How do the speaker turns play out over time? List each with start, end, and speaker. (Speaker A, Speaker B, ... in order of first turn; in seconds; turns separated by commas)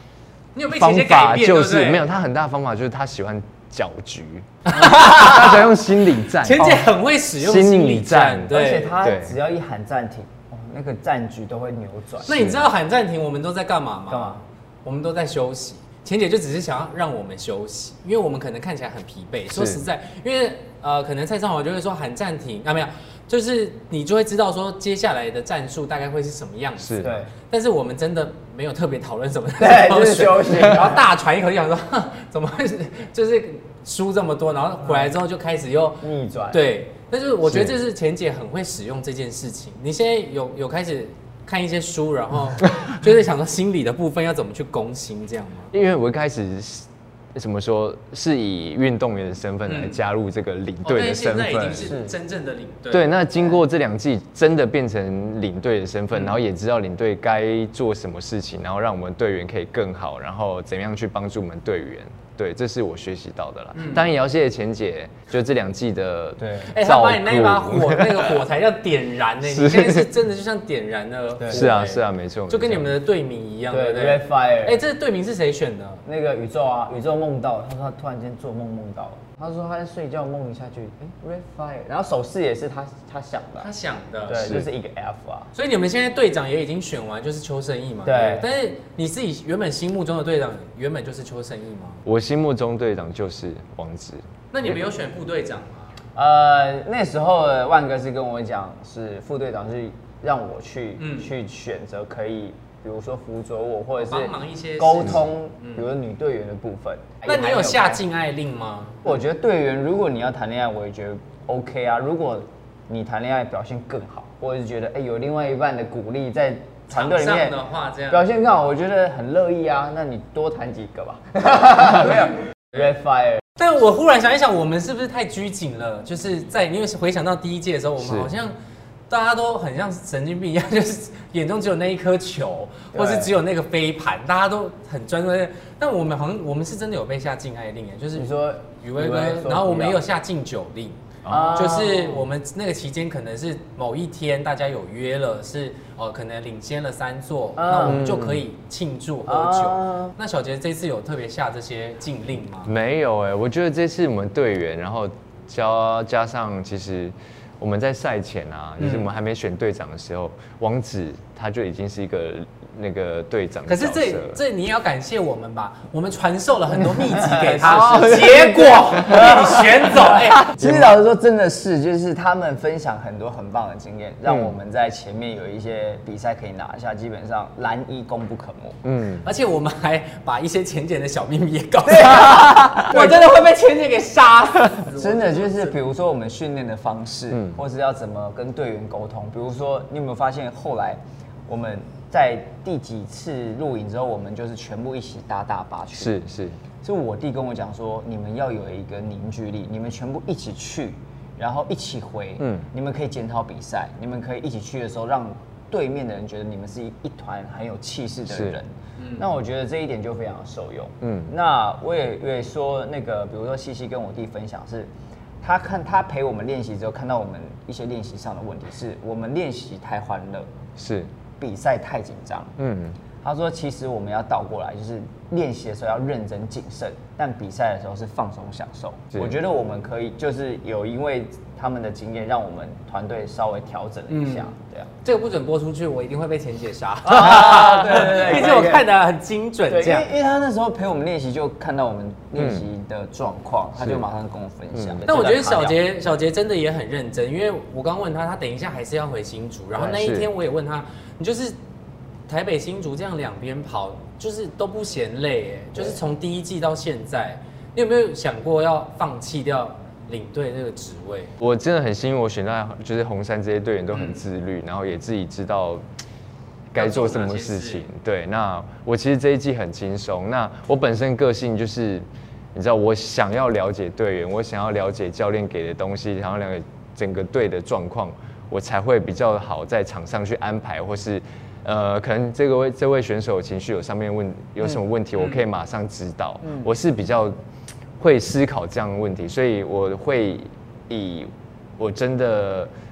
Speaker A: 0.6-2.0, Speaker B: 0.7-9.4, Speaker A: 4.7-5.7, Speaker A: 6.3-9.0, Speaker C: 8.5-12.5, Speaker A: 12.2-45.7, Speaker B: 12.3-12.7, Speaker C: 14.1-14.4, Speaker B: 19.5-19.8, Speaker B: 26.8-27.1, Speaker C: 27.0-27.3, Speaker C: 29.6-30.9, Speaker C: 34.9-35.1, Speaker C: 36.0-36.7, Speaker B: 37.4-37.8, Speaker B: 45.7-51.9, Speaker A: 49.7-50.0, Speaker A: 50.8-53.2, Speaker C: 51.8-52.1, Speaker B: 52.9-68.4, Speaker A: 56.1-56.4, Speaker A: 63.8-64.0, Speaker C: 66.4-66.8, Speaker A: 66.7-76.0, Speaker B: 69.4-70.1, Speaker C: 71.4-71.7, Speaker B: 71.5-73.0, Speaker C: 73.7-74.8, Speaker C: 76.0-83.7, Speaker A: 83.6-84.6, Speaker C: 84.3-85.5, Speaker B: 84.3-84.7, Speaker A: 85.5-92.0, Speaker C: 88.0-88.5, Speaker B: 92.0-94.8, Speaker A: 94.5-96.0, Speaker C: 96.2-108.0, Speaker A: 101.0-101.3, Speaker A: 104.0-105.9, Speaker A: 107.2-109.1, Speaker C: 109.0-117.6, Speaker A: 116.9-118.2, Speaker C: 118.1-123.4, Speaker A: 123.6-128.6, Speaker B: 128.0-128.3, Speaker A: 129.1-141.0, Speaker C: 132.9-133.4, Speaker C: 138.2-140.0, Speaker B: 141.2-141.7, Speaker C: 141.3-142.3, Speaker A: 141.5-152.7, Speaker C: 147.6-148.1, Speaker B: 147.8-148.4, Speaker C: 149.3-150.2, Speaker B: 152.7-164.4, Speaker A: 158.8-159.1, Speaker A: 163.7-170.6, Speaker C: 166.8-178.8, Speaker B: 170.5-170.9, Speaker B: 174.3-174.5, Speaker B: 178.8-179.3, Speaker A: 179.2-185.8, Speaker C: 181.8-183.3, Speaker C: 184.9-196.2, Speaker B: 187.3-187.6, Speaker B: 195.9-196.6, Speaker C: 196.8-214.9, Speaker B: 202.4-202.7, Speaker B: 208.3-208.6, Speaker A: 209.0-209.3, Speaker B: 211.0-211.3, Speaker C: 215.4-220.5, Speaker B: 220.8-221.1, Speaker C: 221.4-222.6, Speaker B: 222.6-223.0, Speaker C: 223.2-234.9, Speaker A: 234.1-234.5, Speaker A: 235.0-240.1, Speaker C: 237.1-238.9, Speaker C: 239.7-245.8, Speaker B: 242.4-242.6, Speaker B: 243.8-244.0, Speaker B: 244.7-245.0, Speaker A: 245.1-251.6, Speaker B: 249.9-250.3, Speaker A: 252.3-261.3, Speaker B: 261.4-265.8, Speaker A: 263.9-264.2, Speaker B: 266.7-287.4, Speaker A: 266.8-267.9, Speaker A: 285.2-285.5, Speaker B: 288.0-292.7